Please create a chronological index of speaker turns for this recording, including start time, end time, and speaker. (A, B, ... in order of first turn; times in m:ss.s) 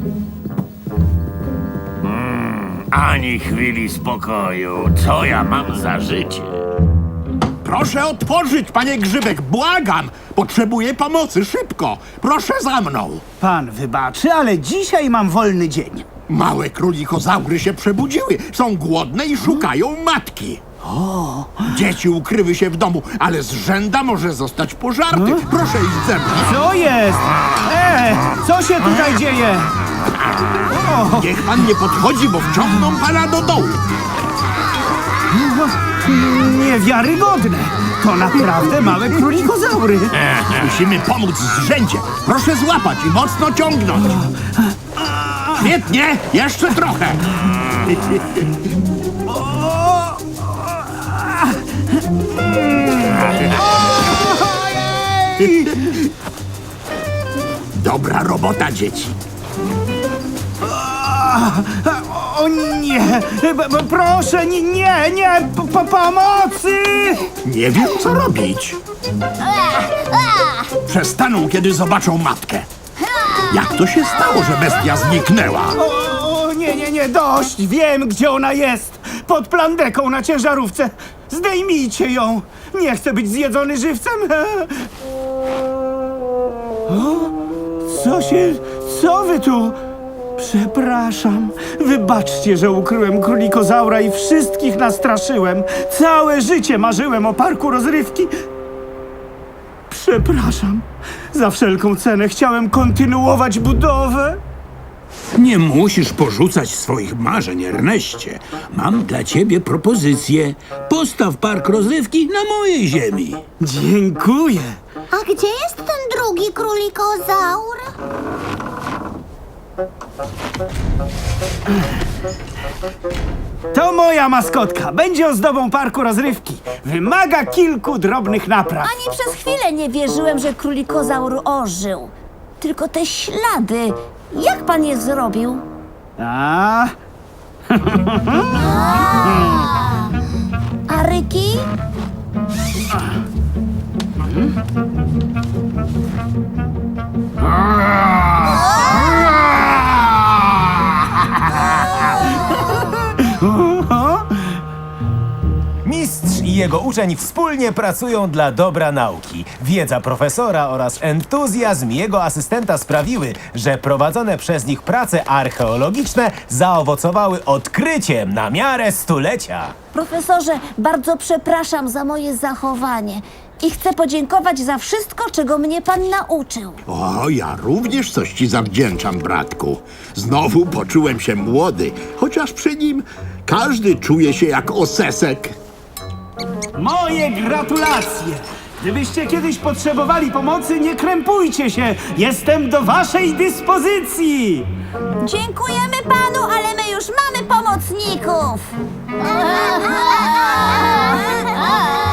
0:02.0-0:06.5 A
0:07.6-0:13.2 B
0:13.4-0:16.0 C
0:16.3-0:20.6 B
0:20.8-0:21.6 C
0:21.6-0:26.5 B
0:25.1-0:25.4 C
0:26.5-0:29.7 C
0:30.7-0:31.3 C
0:31.1-0:33.8 B
0:35.3-0:40.1 C
0:40.2-0:44.2 B
0:45.0-0:45.6 C
0:45.6-0:47.3 B
0:49.3-0:51.5 C
0:52.3-0:55.9 C
0:57.7-0:59.2 B
1:00.6-1:07.3 C
1:07.4-1:08.8 B
1:10.8-1:12.7 B
1:13.4-1:15.8 B
1:15.8-1:24.8 C
1:26.9-1:27.3 C
1:27.8-1:29.8 C
1:30.4-1:38.3 C
1:39.9-1:44.4 C
1:45.3-1:53.4 D
1:53.6-1:54.8 C
1:55.1-1:57.9 E
2:03.7-2:08.9 C
2:08.8-2:15.6 F
2:16.2-2:16.9 C
2:17.8-2:18.6 C
2:18.6-2:19.6 F
2:20.9-2:21.7 F
2:33.3-2:34.3 C
2:35.8-2:49.7 G
2:49.9-2:56.8 F
2:56.9-3:05.6 B
3:06.7-3:14.7 C
3:15.2-3:18.7 F
3:19.6-3:21.4 F